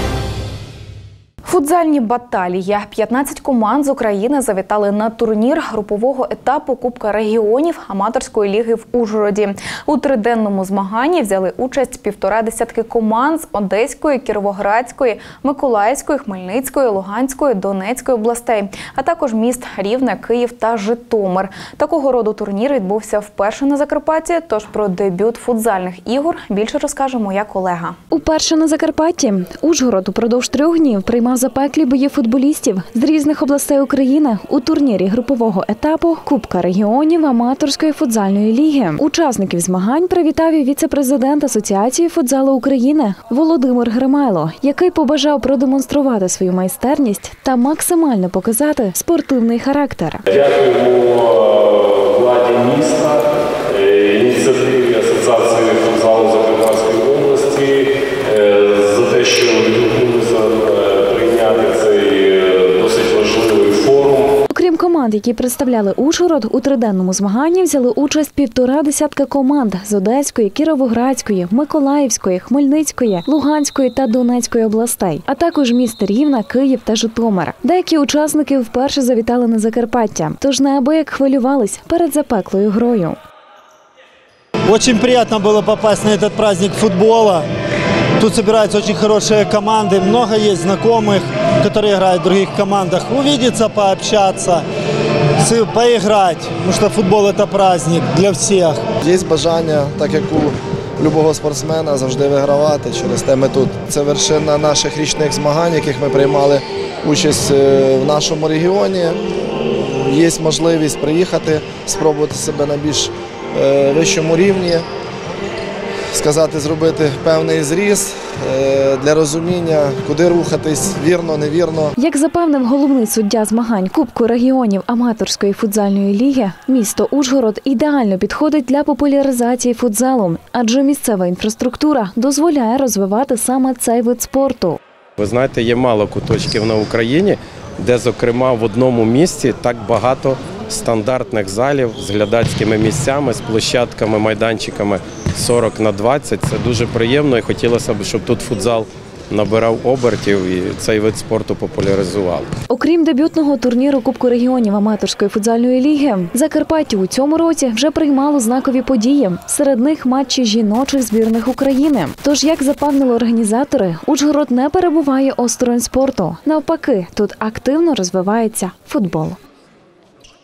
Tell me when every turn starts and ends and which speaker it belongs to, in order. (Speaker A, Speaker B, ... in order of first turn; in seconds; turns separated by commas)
Speaker A: 1.4-28.0, Speaker B: 28.1-50.2, Speaker C: 50.4-51.0, Speaker C: 52.2-53.1, Speaker C: 54.0-57.7, Speaker C: 58.4-64.2, Speaker B: 64.5-83.2, Speaker D: 84.7-87.4, Speaker D: 88.2-94.6, Speaker D: 95.4-98.8, Speaker E: 99.0-109.2, Speaker E: 110.1-114.8, Speaker E: 116.1-121.9, Speaker B: 122.0-134.8, Speaker F: 135.2-152.5, Speaker B: 152.7-169.4